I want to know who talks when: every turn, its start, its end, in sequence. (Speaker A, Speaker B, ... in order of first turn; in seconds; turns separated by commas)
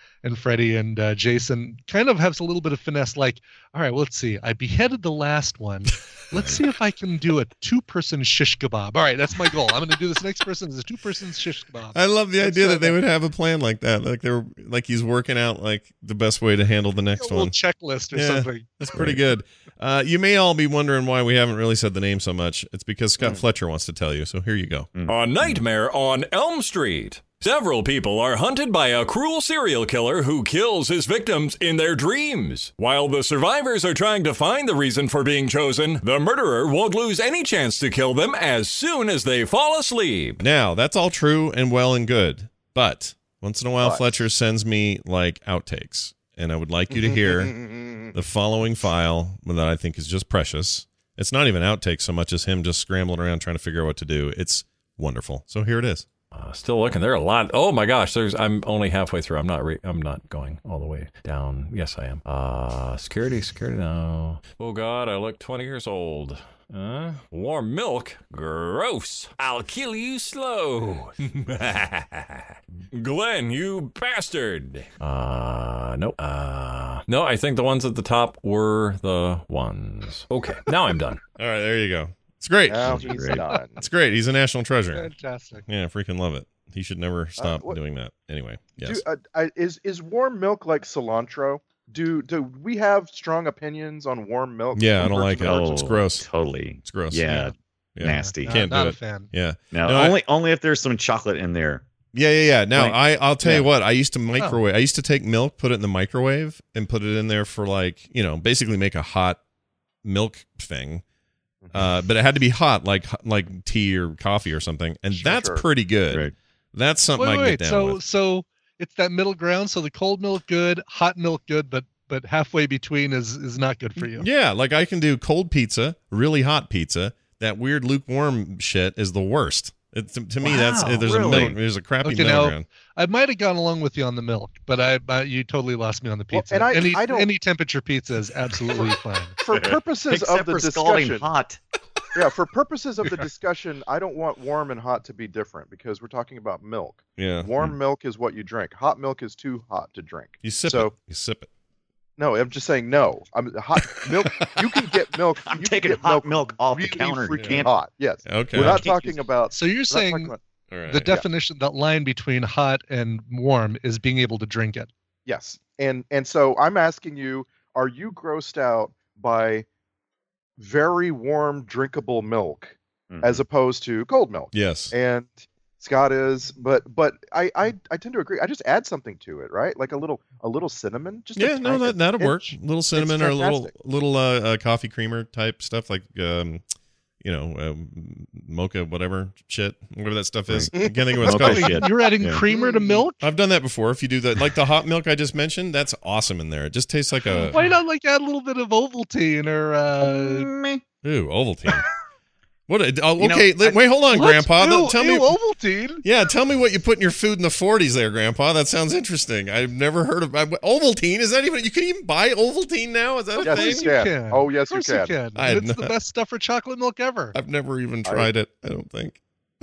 Speaker A: 0.2-13.0, Speaker B: 6.3-6.6, Speaker B: 11.9-17.5, Speaker A: 17.2-18.8, Speaker B: 18.1-24.9, Speaker C: 24.9-25.6, Speaker D: 25.1-40.4, Speaker B: 40.4-47.5, Speaker E: 43.8-44.2, Speaker E: 46.9-48.1, Speaker B: 48.1-56.1, Speaker D: 56.3-81.2, Speaker B: 81.4-85.1, Speaker E: 82.7-83.9, Speaker C: 82.8-83.4, Speaker A: 84.9-85.6, Speaker B: 85.7-89.0, Speaker E: 87.4-87.8, Speaker E: 88.8-95.8, Speaker B: 94.7-96.2, Speaker C: 95.4-98.6, Speaker B: 96.8-100.2, Speaker A: 98.0-99.3, Speaker C: 99.7-101.8, Speaker B: 102.1-109.4, Speaker C: 102.7-103.7, Speaker B: 110.0-111.0, Speaker E: 111.6-111.9, Speaker B: 111.7-118.0, Speaker E: 115.1-115.6, Speaker A: 117.2-124.3, Speaker B: 124.0-132.6, Speaker C: 130.4-131.6, Speaker A: 132.0-139.3, Speaker E: 136.3-137.3, Speaker E: 139.4-141.2, Speaker C: 139.5-141.6, Speaker E: 142.1-150.9, Speaker B: 147.2-147.5, Speaker B: 150.4-151.5, Speaker E: 152.2-160.4, Speaker B: 153.9-154.4, Speaker C: 155.4-157.7, Speaker B: 158.2-158.8, Speaker C: 158.5-159.2, Speaker A: 159.5-160.3, Speaker B: 160.7-161.1, Speaker A: 160.9-164.9, Speaker E: 165.2-169.7, Speaker E: 170.6-183.7, Speaker C: 173.1-173.4, Speaker B: 174.5-174.9, Speaker B: 181.3-186.6, Speaker B: 187.2-191.8, Speaker C: 190.5-192.4, Speaker E: 190.8-191.8, Speaker A: 191.3-193.2, Speaker E: 192.5-193.0, Speaker B: 193.2-197.6, Speaker A: 197.5-200.5, Speaker C: 200.0-200.8, Speaker B: 201.0-201.8, Speaker B: 202.7-205.3, Speaker C: 203.2-203.8, Speaker A: 204.1-206.0, Speaker B: 206.0-213.9, Speaker A: 213.4-217.3, Speaker E: 213.4-215.1, Speaker B: 215.3-215.9, Speaker B: 217.3-219.2